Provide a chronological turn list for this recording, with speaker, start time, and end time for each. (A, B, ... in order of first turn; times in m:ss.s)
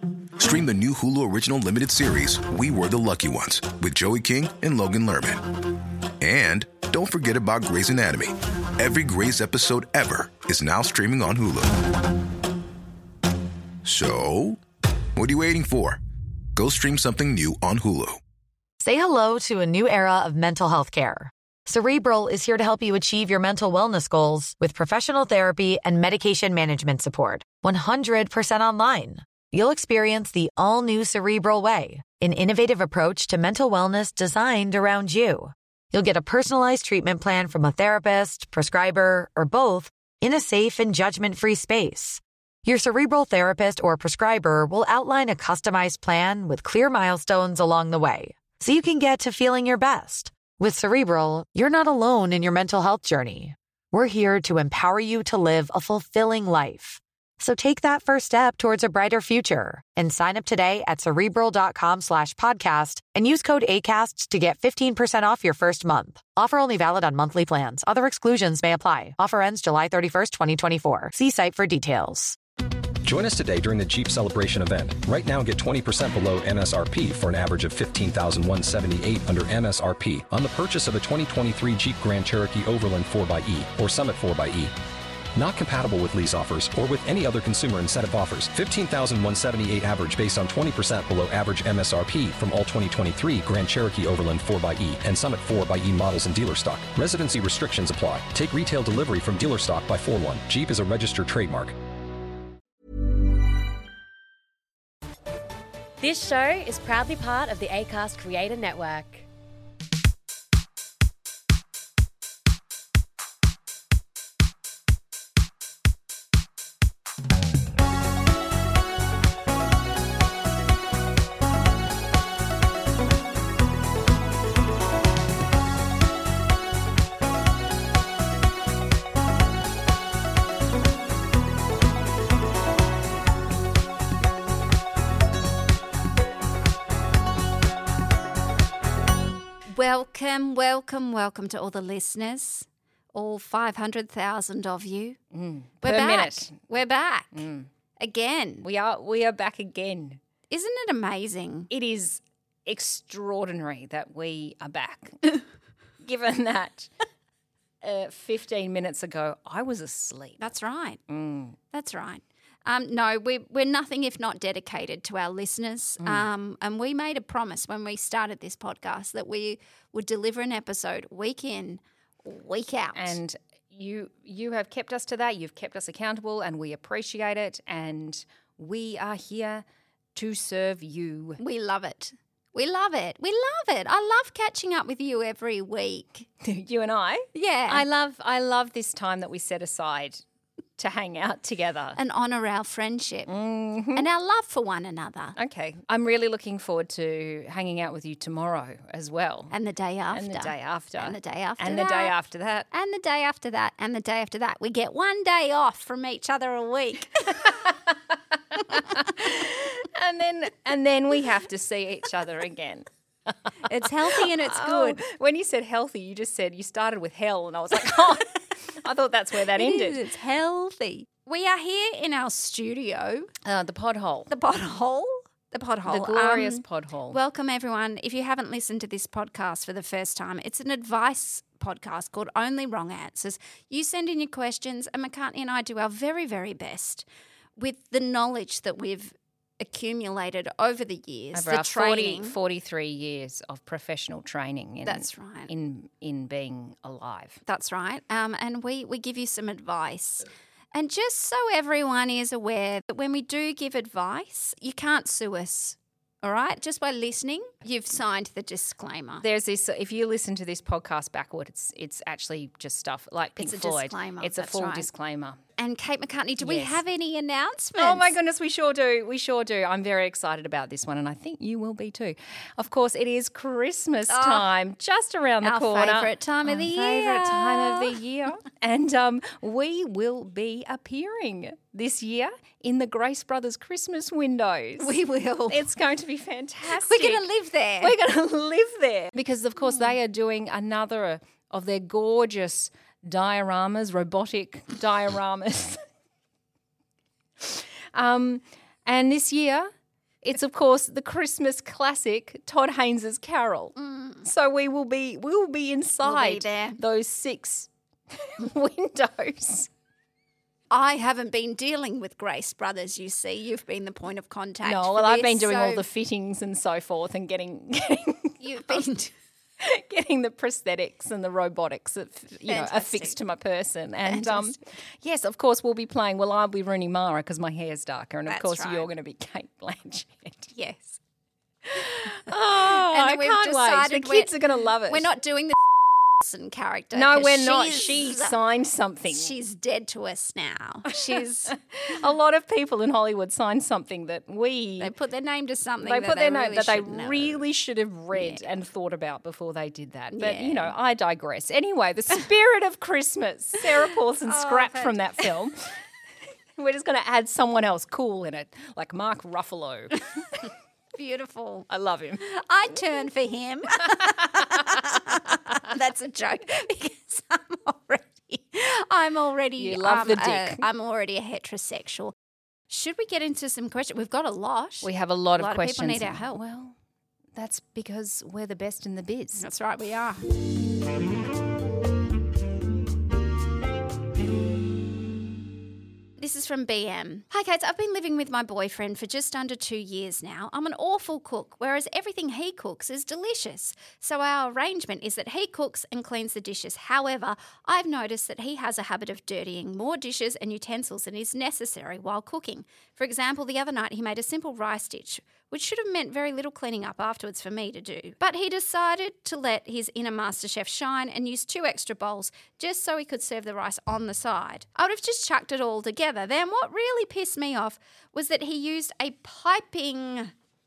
0:00.4-0:05.6 A
0:06.2-0:11.9 A
0:13.8-0:14.6 A
0:15.2-0:16.0 A
0:16.5-0:18.2 A
0:18.8-1:12.4 B
1:13.0-1:24.7 C
1:25.4-1:41.8 C
1:46.0-1:49.3 D
2:19.7-2:25.2 E
2:25.3-2:26.6 F
2:25.8-2:27.4 E
2:27.3-2:27.7 F
2:28.0-2:28.6 E
2:28.6-2:30.2 F
2:30.5-2:31.7 E
2:31.7-2:35.4 F
2:36.0-2:36.9 F
2:37.8-2:40.5 F
2:40.4-2:41.0 E
2:41.1-2:41.6 F
2:41.7-2:53.2 E
2:46.0-2:46.2 F
2:52.9-2:59.6 F
3:00.1-3:01.4 F
3:01.4-3:06.3 E
3:06.4-3:10.2 F
3:07.3-3:07.8 E
3:10.8-3:12.0 F
3:12.0-3:13.3 E
3:13.3-3:14.1 F
3:13.9-3:15.4 E
3:15.4-3:19.5 F
3:19.5-3:22.1 E
3:20.1-3:22.7 F
3:22.7-3:27.6 E
3:28.7-3:32.9 F
3:33.5-3:40.0 F
3:33.6-3:35.0 E
3:39.5-3:43.3 E
3:43.4-3:44.3 F
3:44.3-3:57.0 E
3:45.9-3:47.2 F
3:57.6-4:02.4 E
4:01.3-4:07.4 F
4:04.8-4:05.5 E
4:07.4-4:19.2 E
4:19.2-4:25.4 F
4:23.4-4:24.9 E
4:25.6-4:28.1 E
4:26.4-4:26.8 F
4:27.8-4:45.0 F
4:34.1-4:34.5 E
4:35.4-4:38.0 E
4:44.8-4:45.7 E
4:45.5-4:47.3 F
4:46.8-4:47.9 E
4:47.8-4:55.8 F
4:57.4-4:59.7 F
5:00.2-5:09.7 F
5:03.8-5:04.2 E
5:06.0-5:06.8 E
5:10.7-5:15.8 E
5:14.6-5:18.8 F
5:18.4-5:19.1 E
5:19.6-5:30.5 F
5:22.4-5:23.2 E
5:24.0-5:24.6 E
5:28.3-5:28.9 E
5:30.5-5:31.0 E
5:31.7-5:35.1 F
5:32.3-5:34.3 E
5:34.9-5:38.4 E
5:36.9-5:39.3 F
5:39.1-5:41.5 E
5:40.9-5:44.9 F
5:44.8-5:47.4 E
5:45.8-5:55.7 F
5:48.1-5:48.4 E
5:50.1-5:50.7 E
5:54.2-5:55.3 E
5:56.6-6:00.5 F
6:00.9-6:01.7 E
6:01.7-6:02.2 F
6:02.2-6:12.1 E
6:03.9-6:04.7 F
6:09.6-6:10.6 F
6:12.7-6:16.4 E
6:14.8-6:16.7 F
6:17.3-6:19.4 F
6:19.4-6:20.2 E
6:26.2-7:00.3 E